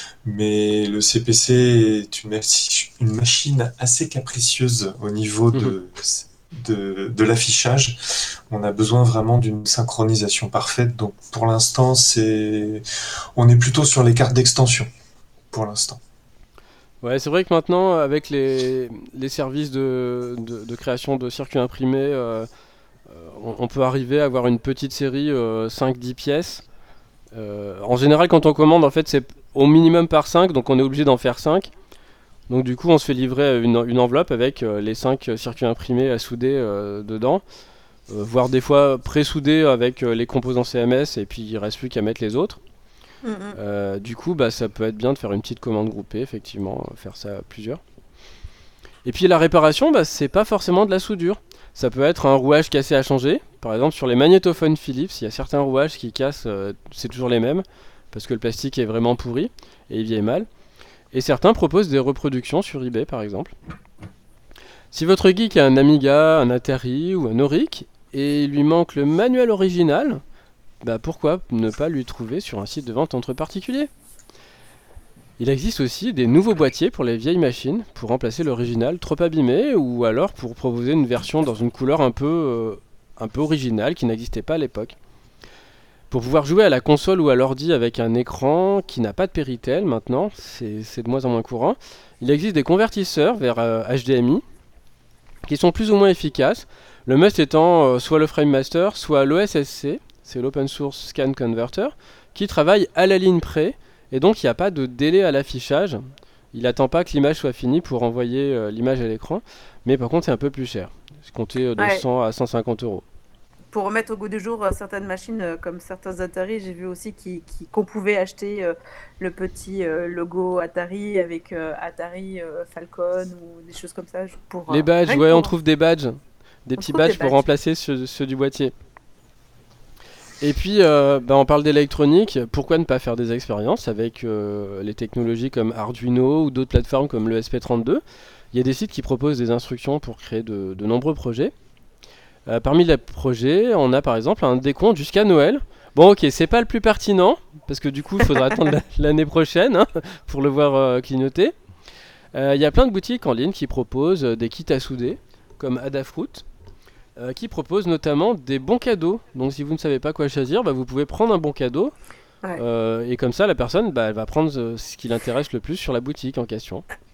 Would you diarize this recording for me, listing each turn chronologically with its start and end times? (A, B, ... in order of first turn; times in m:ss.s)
0:00.2-0:14.9 A
0:15.5-0:16.0 A
0:17.0-0:22.5 B
0:23.1-0:26.6 B
0:27.3-0:31.7 B
0:32.5-0:37.4 B
0:38.1-0:42.6 B
0:43.2-0:43.6 C
0:43.5-0:47.8 B
0:49.0-1:00.5 B
1:01.1-1:03.5 B
1:04.9-1:10.2 B
1:10.8-1:13.9 B
1:15.4-1:25.0 B
1:26.1-1:34.4 B
1:35.4-1:46.0 B
1:46.5-1:53.0 B
1:51.8-1:52.0 C
1:53.7-2:05.5 C
2:04.7-2:08.7 B
2:06.8-2:07.4 C
2:10.4-2:18.0 B
2:18.5-2:21.5 B
2:22.5-2:31.5 B
2:32.3-2:36.4 B
2:37.2-2:41.9 B
2:42.6-2:46.8 B